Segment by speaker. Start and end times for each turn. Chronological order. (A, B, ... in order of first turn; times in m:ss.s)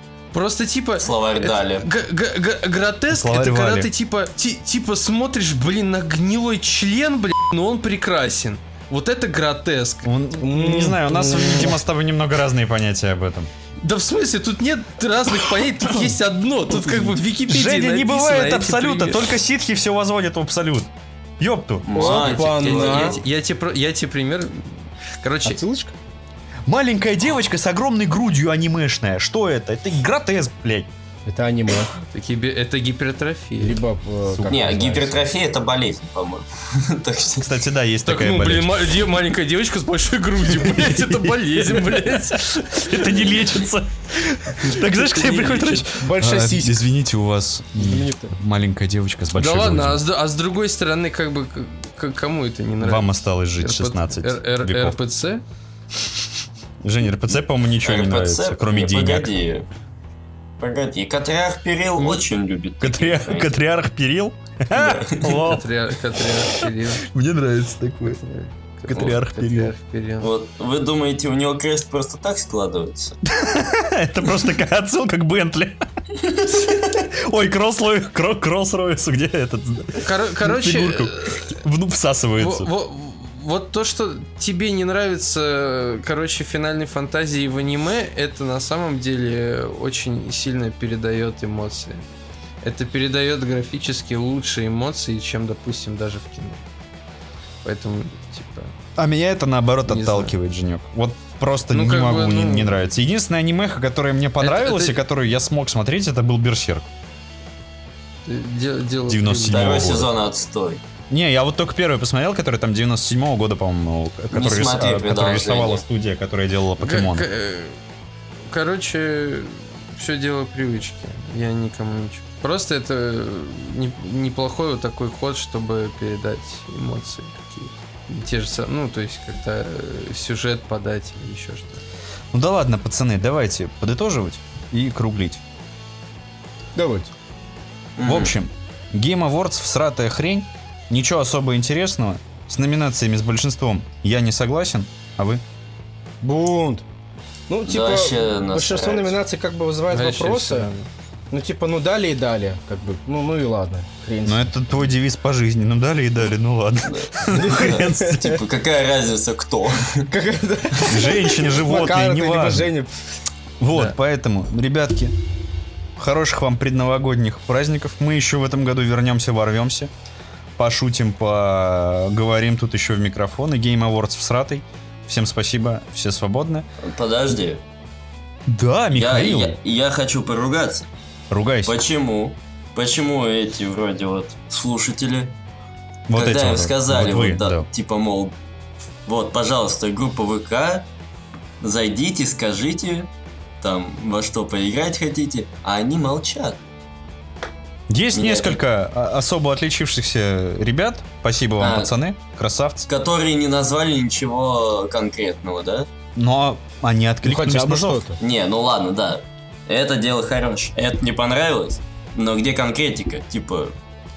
0:00.3-0:10.1 A
0:01.0-0:01.8 B
0:03.1-0:03.9 C
0:10.0-0:13.5 C
0:10.4-0:11.8 D
0:13.8-0:19.3 A
0:16.8-0:21.9 C
0:21.8-0:23.2 B
0:21.9-0:23.2 D
0:22.0-0:25.6 A
0:25.4-0:25.9 D
0:26.6-0:30.9 C
0:31.2-0:31.9 D
0:32.0-0:33.8 A
0:33.6-0:35.2 D
0:34.2-0:34.6 C
0:34.4-0:37.5 B
0:37.4-0:38.7 C
0:38.0-0:43.3 A
0:40.5-0:41.7 C
0:42.7-0:50.0 C
0:45.1-0:45.4 A
0:45.1-0:46.8 D
0:47.8-0:48.4 D
0:49.3-0:55.4 A
0:52.8-0:55.0 C
0:56.8-0:59.3 C
0:57.8-0:59.7 B
1:00.6-1:03.6 B
1:02.0-1:02.2 A
1:02.8-1:05.7 C
1:04.7-1:05.4 B
1:05.4-1:07.1 A
1:06.6-1:08.2 C
1:08.2-1:10.3 A
1:08.9-1:09.7 C
1:10.2-1:13.2 B
1:13.2-1:15.8 C
1:16.4-1:22.7 C
1:20.0-1:21.6 A
1:22.4-1:32.0 A
1:32.6-1:36.6 A
1:37.6-1:38.7 A
1:39.0-1:46.9 C
1:39.8-1:40.3 A
1:41.7-1:42.7 A
1:44.4-1:45.0 A
1:48.2-1:49.6 A
1:49.1-1:50.1 C
1:49.5-1:50.8 B
1:51.1-1:57.3 C
1:54.3-1:55.8 B
1:56.8-1:57.8 A
1:58.5-2:11.8 A
2:12.3-2:15.4 C
2:16.8-2:17.1 D
2:18.0-2:18.3 B
2:18.0-2:25.4 C
2:26.2-2:26.8 D
2:27.5-2:30.7 D
2:27.6-2:29.2 B
2:29.9-2:30.9 A
2:31.3-2:34.5 D
2:34.2-2:38.4 C
2:36.8-2:40.1 B
2:37.3-2:38.4 D
2:40.1-2:43.0 D
2:40.8-2:42.7 C
2:43.6-2:45.1 C
2:46.0-2:49.9 C
2:50.6-2:56.6 C
2:56.8-2:57.6 B
2:58.5-2:59.6 C
2:58.9-3:00.9 B
3:01.3-3:01.8 C
3:01.6-3:05.4 B
3:06.1-3:07.7 C
3:06.1-3:08.3 B
3:09.0-3:10.9 B
3:11.6-3:13.1 B
3:13.6-3:16.6 B
3:17.9-3:22.9 C
3:18.1-3:18.6 B
3:21.6-3:21.9 B
3:22.9-3:25.9 B
3:26.2-3:28.0 C
3:27.2-3:28.2 D
3:28.2-3:33.7 B